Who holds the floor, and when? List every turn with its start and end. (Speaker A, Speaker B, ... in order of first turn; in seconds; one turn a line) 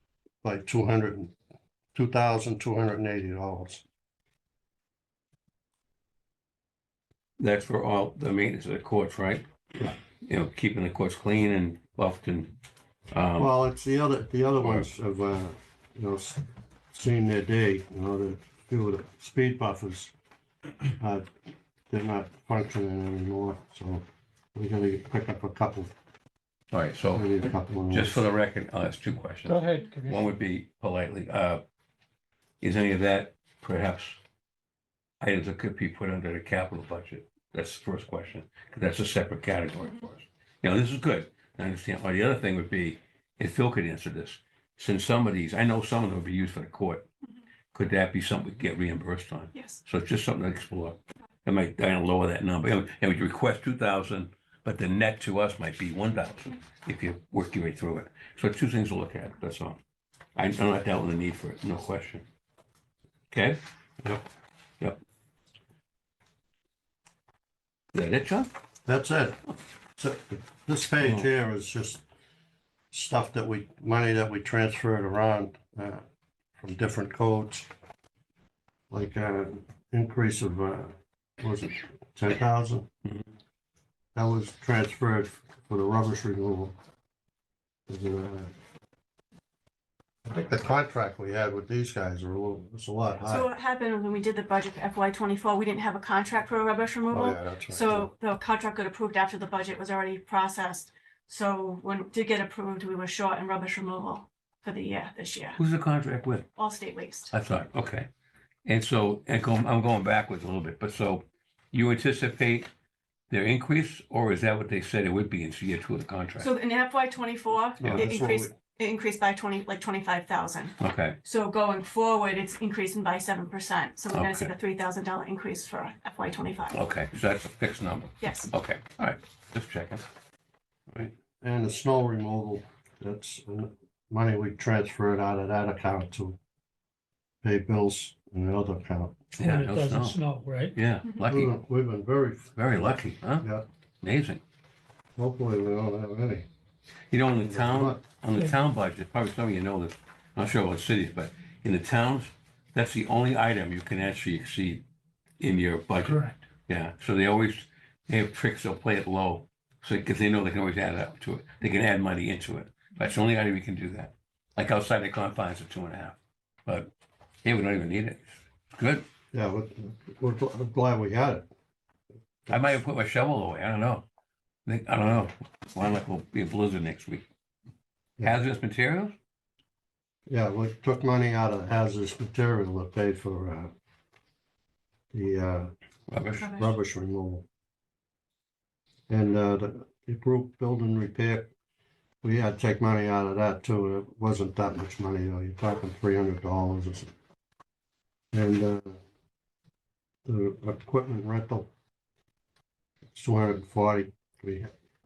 Speaker A: 0.4-1.4
Speaker A: 1.9-3.8
Speaker B: 7.4-12.5
Speaker B: 13.1-13.5
Speaker A: 13.4-20.1
Speaker B: 14.6-14.9
Speaker A: 21.0-21.3
Speaker A: 21.9-25.9
Speaker B: 26.7-27.3
Speaker A: 27.1-28.2
Speaker B: 27.9-31.6
Speaker C: 29.5-30.3
Speaker B: 32.6-34.2
Speaker B: 35.2-47.1
Speaker B: 47.7-59.8
Speaker D: 49.5-49.8
Speaker B: 60.4-62.2
Speaker B: 63.3-63.6
Speaker B: 67.9-68.5
Speaker A: 68.9-69.4
Speaker A: 70.0-72.0
Speaker A: 72.9-76.0
Speaker A: 76.6-77.7
Speaker A: 78.9-82.9
Speaker A: 84.2-86.8
Speaker A: 87.9-88.5
Speaker A: 90.3-93.5
Speaker D: 93.2-105.6
Speaker A: 97.1-98.1
Speaker B: 105.6-106.5
Speaker D: 106.5-107.3
Speaker B: 107.3-108.1
Speaker B: 108.7-112.7
Speaker B: 113.3-116.5
Speaker D: 116.4-126.8
Speaker B: 117.8-118.1
Speaker A: 117.8-118.5
Speaker B: 120.8-121.2
Speaker B: 124.1-124.5
Speaker B: 126.7-130.0
Speaker D: 128.2-128.5
Speaker A: 130.9-136.4
Speaker A: 137.4-139.2
Speaker B: 139.4-140.2
Speaker C: 139.4-140.8
Speaker B: 140.7-141.5
Speaker A: 141.3-143.7
Speaker B: 142.6-143.5
Speaker B: 144.0-144.4
Speaker A: 145.2-146.5
Speaker B: 147.1-154.8
Speaker A: 147.4-148.0
Speaker B: 155.4-166.9
Speaker C: 156.0-156.4
Speaker B: 167.4-169.1
Speaker A: 169.3-171.5
Speaker A: 172.5-172.8
Speaker B: 172.5-174.1
Speaker B: 174.7-177.2
Speaker B: 178.2-179.2
Speaker A: 180.3-183.7
Speaker A: 185.1-185.7
Speaker B: 186.1-186.5
Speaker D: 186.3-186.8
Speaker A: 186.4-187.4
Speaker A: 189.1-191.5
Speaker A: 192.2-197.1
Speaker A: 198.3-199.0
Speaker A: 200.3-201.7
Speaker A: 203.1-204.7